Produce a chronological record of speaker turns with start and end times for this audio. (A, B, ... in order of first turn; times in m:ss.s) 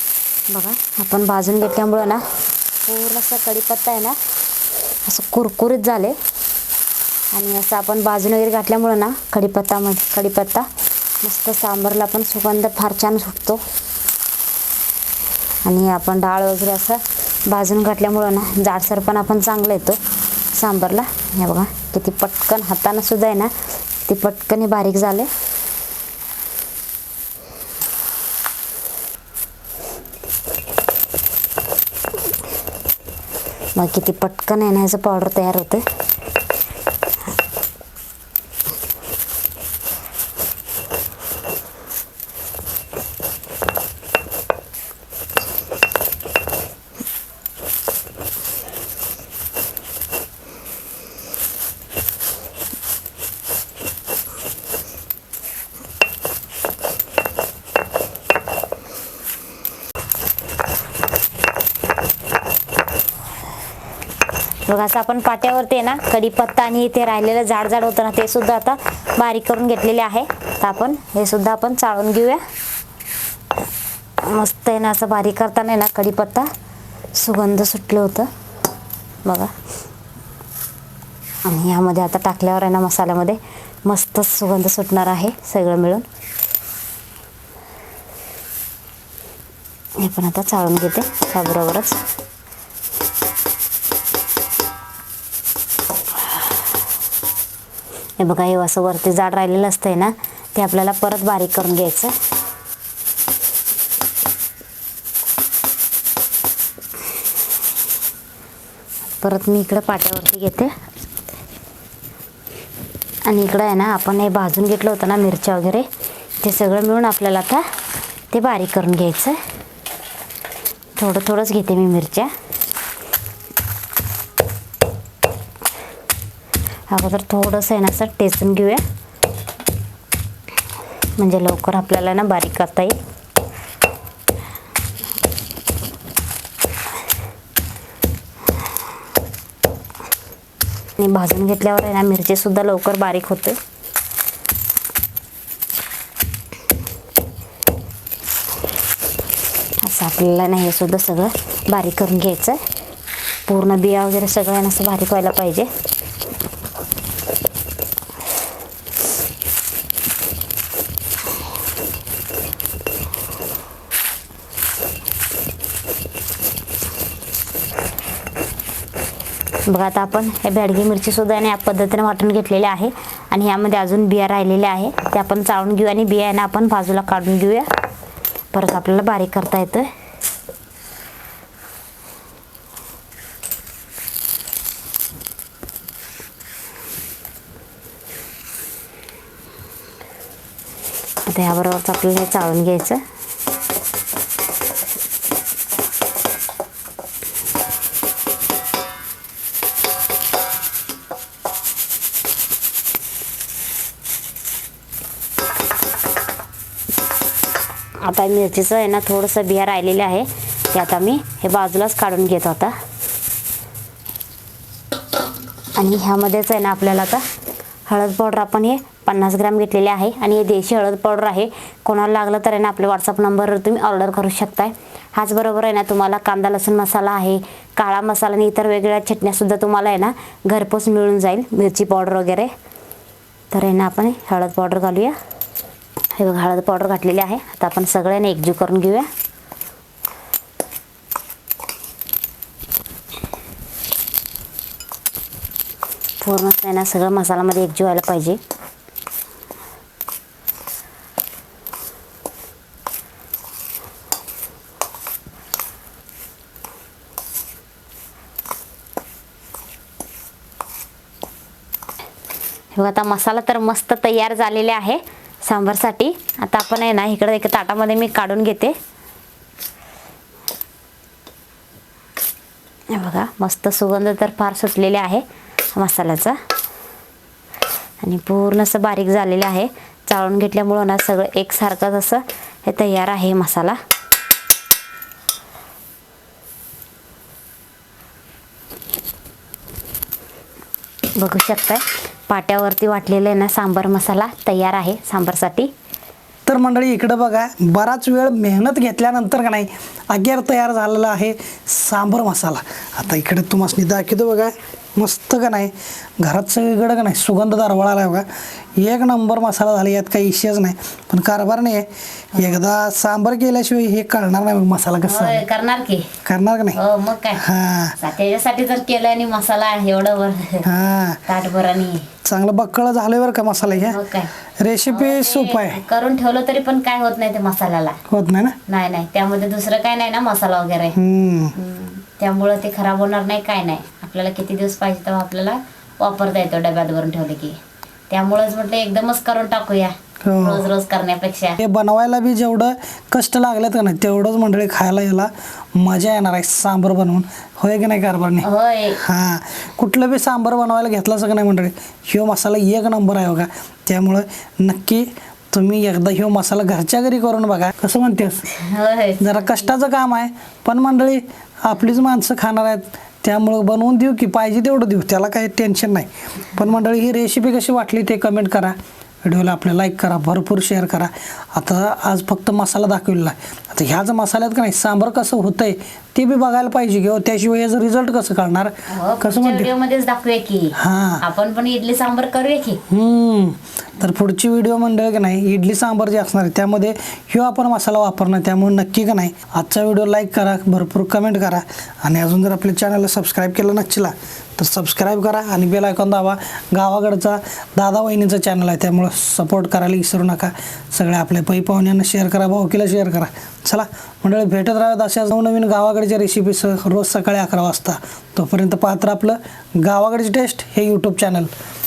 0:00.5-0:02.2 A
0:02.8-0:04.2 A
0:05.0-0:06.1 A
0:07.3-0:10.6 A
0:11.2-0:13.6 A
0:15.6-0:20.0 A
0:20.5-0:23.5 A
0:24.1-0:25.3 A
0:33.8-0:35.8 A
1:04.7-1:12.4 A
1:14.2-1:16.5 A
1:17.2-1:18.3 A
1:19.2-1:19.5 A
1:21.5-1:26.0 A
1:30.0-1:32.0 A
1:38.2-1:42.1 A
1:49.2-1:50.7 A
1:53.3-1:55.8 A
1:56.4-1:57.6 A
1:58.3-1:59.4 A
2:01.0-2:02.3 A
2:06.9-2:08.8 A
2:11.2-2:12.9 A
2:21.0-2:23.6 A
2:29.8-2:32.6 A
2:33.5-2:35.7 A
2:49.7-2:57.7 A
2:58.5-2:59.9 A
3:11.3-3:13.0 A
3:28.0-3:32.7 A
3:35.8-3:37.2 A
3:37.9-3:52.5 A
3:53.5-3:55.1 A
3:56.2-3:59.1 A
4:06.2-4:08.4 A
4:22.7-4:28.7 A
4:32.9-4:35.2 A
4:35.8-4:36.4 A
4:38.0-4:43.8 A
4:51.2-4:55.7 A
4:56.4-5:08.3 B
5:08.8-5:15.4 B
5:15.0-5:16.0 A
5:16.2-5:16.8 B
5:16.8-5:17.4 A
5:17.4-5:18.0 B
5:18.0-5:20.6 A
5:20.6-5:21.2 B
5:21.2-5:22.1 A
5:22.2-5:24.0 B
5:23.6-5:24.3 A
5:24.6-5:25.8 B
5:24.9-5:28.0 A
5:28.1-5:28.6 B
5:28.7-5:30.9 A
5:30.9-5:31.5 B
5:31.6-5:37.6 A
5:38.1-5:41.6 A
5:40.2-5:40.6 B
5:41.6-5:58.5 B
5:48.4-5:49.0 A
5:58.5-5:59.4 A
5:59.2-6:19.7 B
6:18.9-6:22.8 A
6:20.8-6:21.2 B
6:22.9-6:51.5 B